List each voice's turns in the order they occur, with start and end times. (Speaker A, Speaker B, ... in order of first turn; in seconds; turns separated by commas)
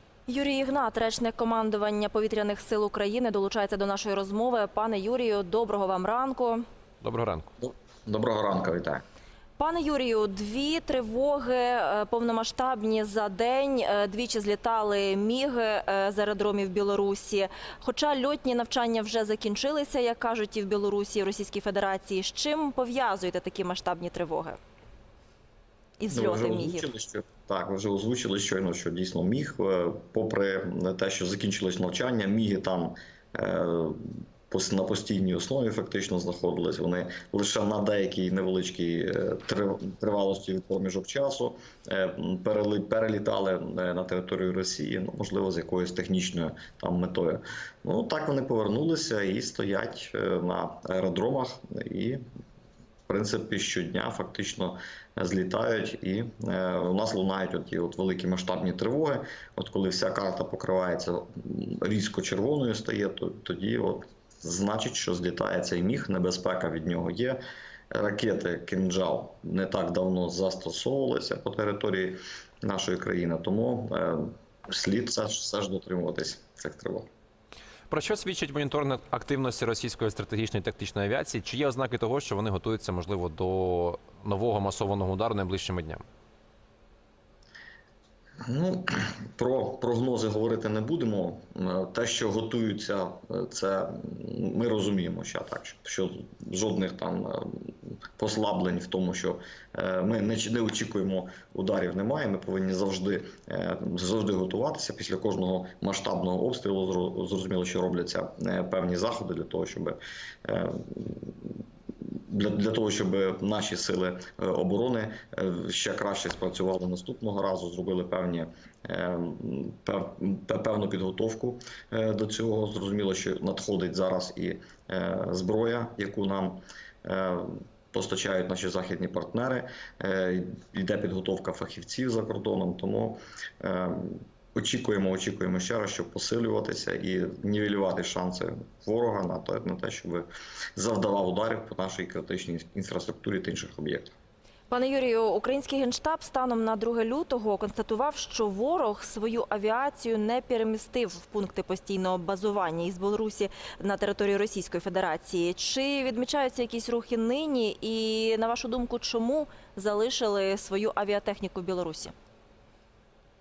Speaker A: 0.3-6.6, Speaker B: 7.0-7.5, Speaker C: 7.6-9.0, Speaker A: 9.6-24.6, Speaker A: 26.0-26.9, Speaker C: 26.1-52.2, Speaker C: 53.1-67.4, Speaker C: 67.9-77.1, Speaker B: 77.9-86.0, Speaker C: 88.4-111.6, Speaker C: 112.3-144.1, Speaker A: 144.7-162.1